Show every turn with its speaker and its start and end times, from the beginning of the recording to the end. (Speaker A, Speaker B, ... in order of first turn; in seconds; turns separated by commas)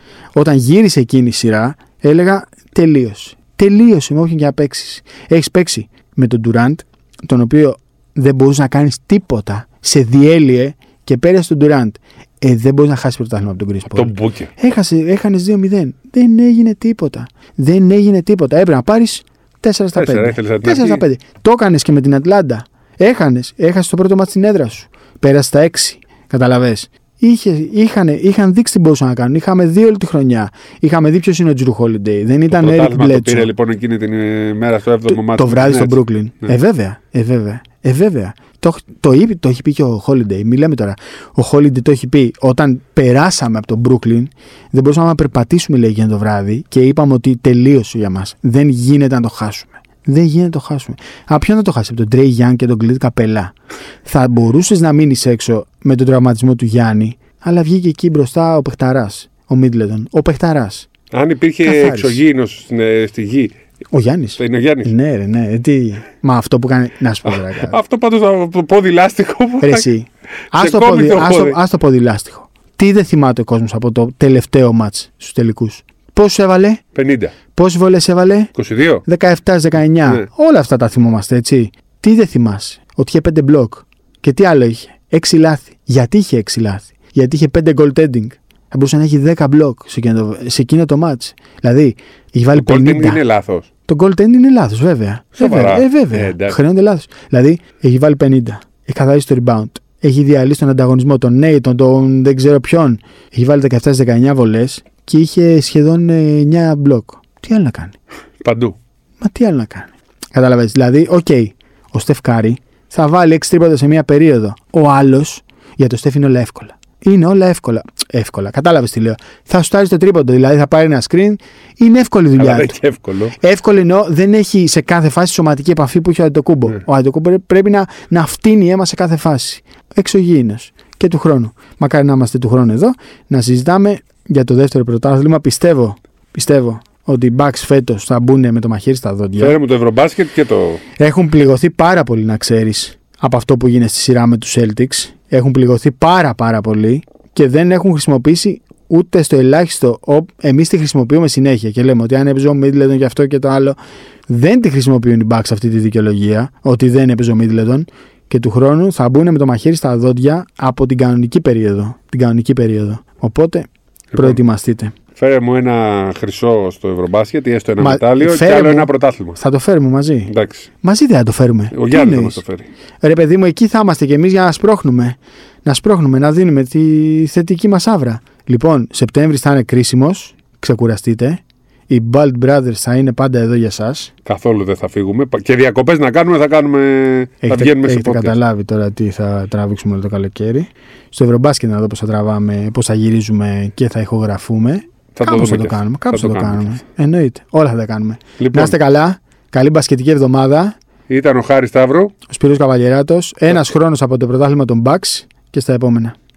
Speaker A: 0.3-33.5, Speaker B: 13.9-14.5, Speaker B: 19.9-21.0, Speaker B: 32.5-36.5, Speaker A: 35.1-53.5, Speaker A: 54.0-60.9, Speaker B: 61.1-63.5, Speaker A: 61.6-62.2, Speaker A: 63.9-67.8, Speaker B: 64.4-64.9, Speaker B: 67.2-69.9, Speaker A: 69.6-76.8, Speaker B: 70.5-71.6, Speaker B: 76.9-77.3, Speaker A: 77.5-78.5, Speaker B: 78.5-79.0, Speaker A: 79.0-93.2, Speaker B: 92.5-93.7, Speaker A: 93.9-107.9, Speaker B: 95.3-96.6, Speaker B: 108.4-108.8, Speaker A: 109.2-122.8, Speaker B: 122.4-123.3, Speaker A: 123.3-139.6, Speaker B: 139.4-140.8, Speaker A: 141.0-153.8, Speaker A: 154.3-164.9, Speaker B: 164.1-164.4, Speaker B: 165.2-169.4, Speaker A: 167.8-172.4, Speaker B: 170.3-170.7, Speaker B: 171.7-172.7, Speaker A: 173.0-184.1, Speaker B: 184.2-188.3, Speaker A: 187.4-200.8, Speaker B: 195.1-196.8, Speaker B: 198.4-198.8, Speaker B: 201.1-202.1, Speaker A: 202.3-206.2